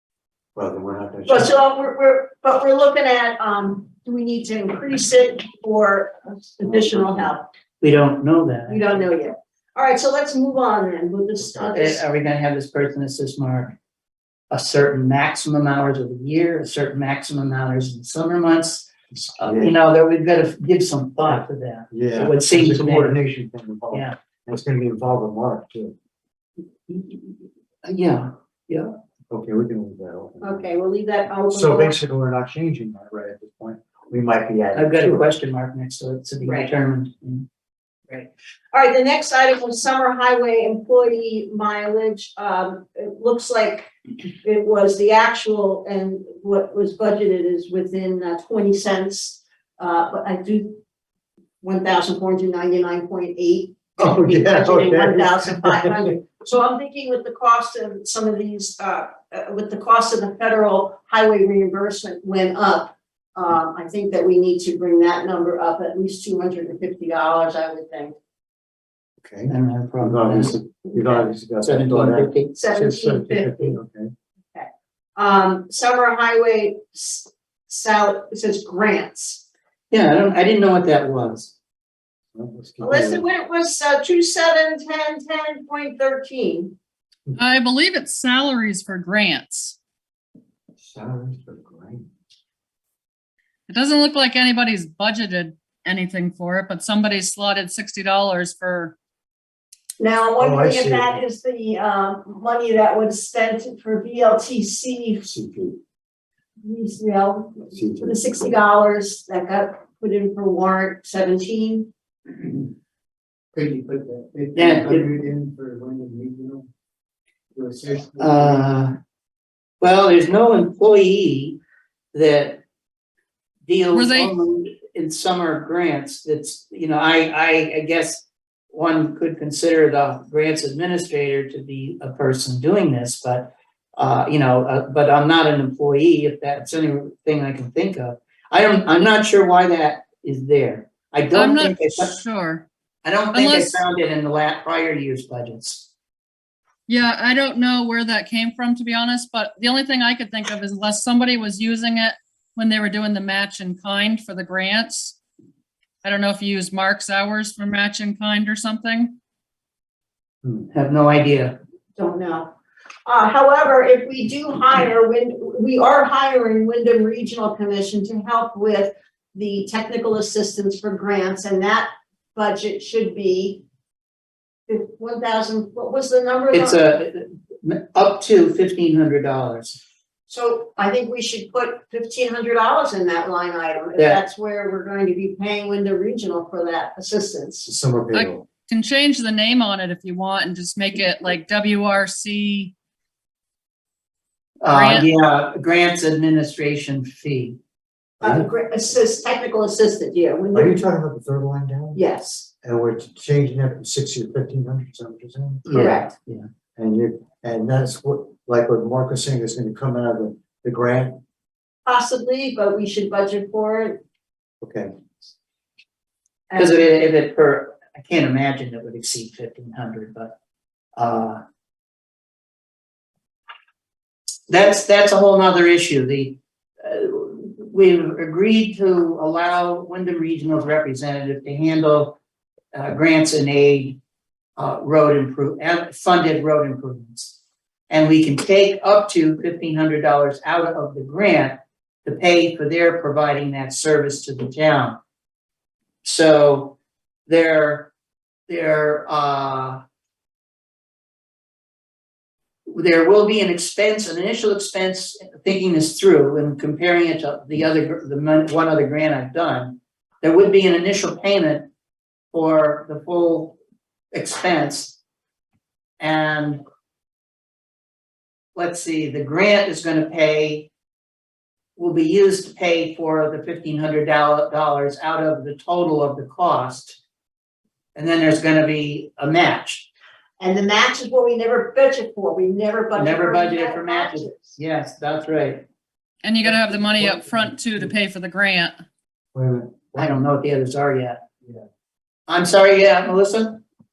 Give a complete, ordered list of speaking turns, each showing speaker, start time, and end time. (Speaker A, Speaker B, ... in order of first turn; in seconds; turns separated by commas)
Speaker A: 0.5-1.5, Speaker B: 1.3-7.5, Speaker A: 6.6-7.3, Speaker C: 7.8-9.1, Speaker B: 8.7-12.0, Speaker C: 11.7-13.8, Speaker C: 14.5-18.9, Speaker A: 19.1-19.8, Speaker C: 19.4-23.2, Speaker A: 21.9-25.9, Speaker C: 26.9-28.9, Speaker A: 29.3-30.7, Speaker B: 30.4-31.9, Speaker A: 31.5-35.3, Speaker C: 34.7-37.5, Speaker B: 36.4-36.7, Speaker B: 38.1-43.9, Speaker B: 44.4-50.8, Speaker B: 51.6-68.2, Speaker A: 54.0-56.0, Speaker A: 69.2-74.1, Speaker C: 69.5-72.6, Speaker B: 72.5-73.8, Speaker B: 74.5-79.4, Speaker C: 79.9-81.5, Speaker A: 82.3-83.2, Speaker B: 82.8-86.7, Speaker D: 87.3-89.8, Speaker A: 90.8-92.1, Speaker D: 93.7-99.0, Speaker B: 100.0-105.3, Speaker A: 100.4-101.2, Speaker A: 105.2-105.8, Speaker B: 106.6-111.9, Speaker A: 107.7-108.2, Speaker E: 113.5-116.6, Speaker C: 114.5-115.1, Speaker E: 117.5-118.7, Speaker C: 118.2-118.9, Speaker C: 119.8-121.6, Speaker C: 122.1-122.6, Speaker C: 123.7-142.2, Speaker D: 123.9-124.3, Speaker D: 141.3-142.7, Speaker C: 143.0-145.9, Speaker D: 143.3-143.8, Speaker D: 146.9-155.2, Speaker D: 156.0-159.2, Speaker C: 160.7-161.6, Speaker B: 161.9-162.5, Speaker B: 163.1-173.6, Speaker B: 174.7-176.8, Speaker C: 176.5-179.8, Speaker B: 180.3-187.7, Speaker A: 187.6-188.4, Speaker D: 188.1-192.7, Speaker C: 194.6-197.6, Speaker D: 194.7-195.1, Speaker B: 198.2-200.8, Speaker A: 198.2-198.5, Speaker A: 200.5-202.0, Speaker B: 201.9-202.5, Speaker A: 202.6-205.7, Speaker C: 205.7-206.5, Speaker B: 205.7-206.1, Speaker A: 206.8-211.2, Speaker B: 211.8-214.0, Speaker A: 214.6-214.9, Speaker B: 216.5-216.8, Speaker C: 216.5-220.3, Speaker C: 221.0-221.4, Speaker C: 224.5-232.2, Speaker C: 232.7-234.0, Speaker C: 234.6-237.3, Speaker C: 237.9-245.0, Speaker C: 246.0-246.8, Speaker C: 247.3-247.9, Speaker C: 248.5-249.8, Speaker C: 252.7-261.7, Speaker C: 262.3-263.6, Speaker C: 264.1-265.0, Speaker C: 266.0-266.6, Speaker C: 268.5-270.7, Speaker C: 271.8-277.0, Speaker C: 277.9-279.9, Speaker B: 280.4-284.6, Speaker C: 282.9-285.6, Speaker D: 286.2-288.8, Speaker A: 289.3-290.2, Speaker C: 289.9-291.2, Speaker C: 292.3-293.6